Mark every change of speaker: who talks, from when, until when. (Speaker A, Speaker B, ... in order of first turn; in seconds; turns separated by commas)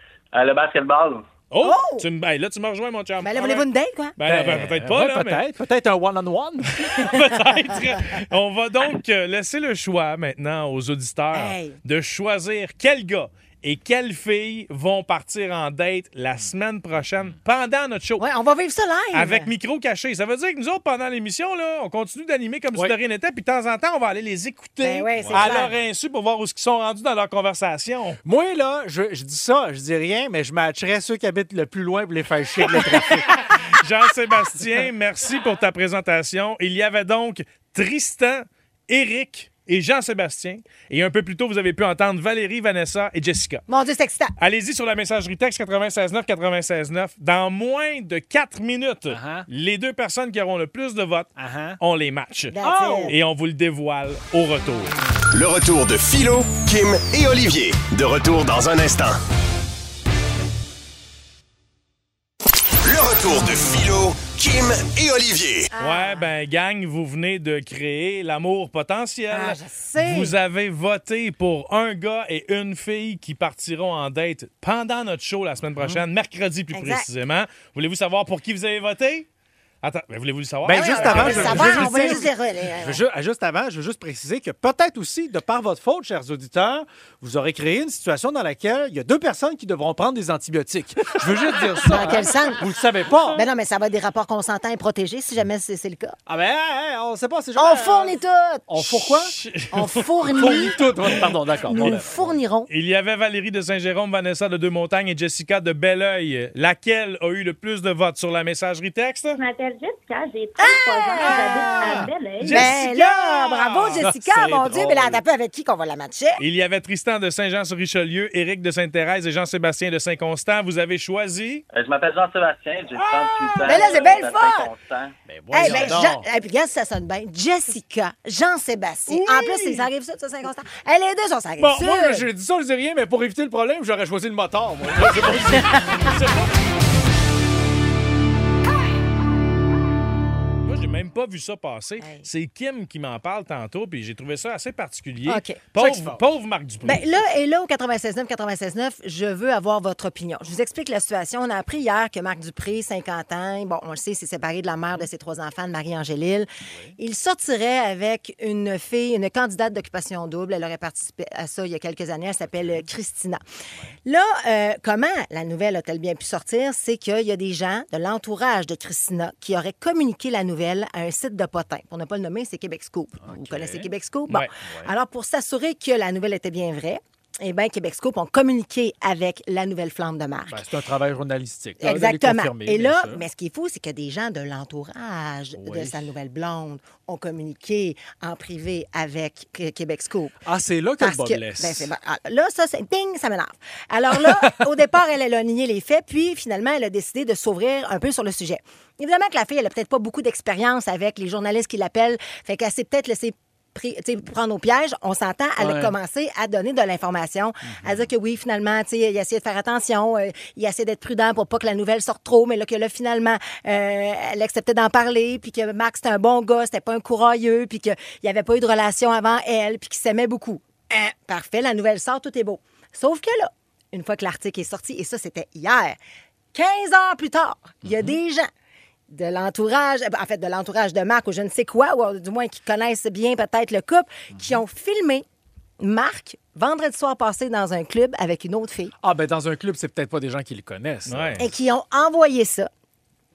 Speaker A: 0.3-1.3, Speaker B: 1.5-3.6, Speaker C: 1.6-2.0, Speaker C: 3.2-4.1, Speaker B: 4.2-5.4, Speaker D: 4.2-7.2, Speaker B: 6.8-18.2, Speaker C: 11.3-11.8, Speaker C: 18.2-19.5, Speaker B: 19.1-28.2, Speaker C: 24.8-25.7, Speaker D: 25.2-25.6, Speaker D: 28.2-33.3, Speaker B: 33.5-43.6, Speaker C: 43.7-44.3, Speaker B: 44.4-55.0, Speaker D: 49.1-49.5, Speaker D: 51.4-51.8, Speaker C: 52.5-53.1, Speaker D: 52.6-53.1, Speaker E: 55.3-59.2, Speaker E: 62.8-65.7, Speaker C: 65.7-66.2, Speaker B: 65.8-79.3, Speaker C: 69.3-70.3, Speaker D: 75.8-76.0, Speaker C: 76.7-77.0, Speaker B: 79.8-82.2, Speaker D: 80.6-93.4, Speaker C: 80.7-83.0, Speaker C: 91.8-92.6, Speaker C: 93.3-96.2, Speaker D: 96.3-98.2, Speaker C: 97.6-98.6, Speaker D: 98.7-99.3, Speaker B: 98.8-100.7, Speaker C: 99.7-100.8, Speaker D: 100.3-102.4, Speaker C: 101.7-102.7, Speaker B: 102.7-109.4, Speaker F: 109.3-112.7, Speaker C: 110.6-116.4, Speaker B: 112.4-114.0, Speaker D: 112.7-115.2, Speaker B: 116.4-121.6, Speaker A: 121.7-125.1, Speaker B: 123.3-123.7, Speaker C: 123.7-124.7, Speaker D: 125.3-126.2, Speaker B: 125.5-126.2, Speaker C: 125.5-132.3, Speaker D: 129.2-129.6, Speaker D: 131.6-136.5, Speaker C: 135.8-136.1, Speaker B: 140.6-147.1, Speaker C: 145.2-145.6, Speaker D: 145.8-146.2, Speaker C: 146.8-163.4, Speaker D: 156.7-156.9, Speaker C: 164.1-180.6, Speaker D: 173.2-173.9, Speaker D: 174.6-174.9, Speaker D: 180.5-183.2, Speaker C: 181.8-190.3, Speaker D: 185.5-186.1, Speaker D: 190.4-191.9, Speaker C: 191.0-226.0, Speaker D: 205.6-205.9, Speaker D: 207.7-208.0, Speaker C: 226.5-228.5, Speaker C: 229.1-235.2, Speaker D: 234.3-234.6, Speaker C: 235.8-238.9, Speaker D: 239.0-241.5, Speaker B: 241.1-241.5, Speaker C: 241.4-242.7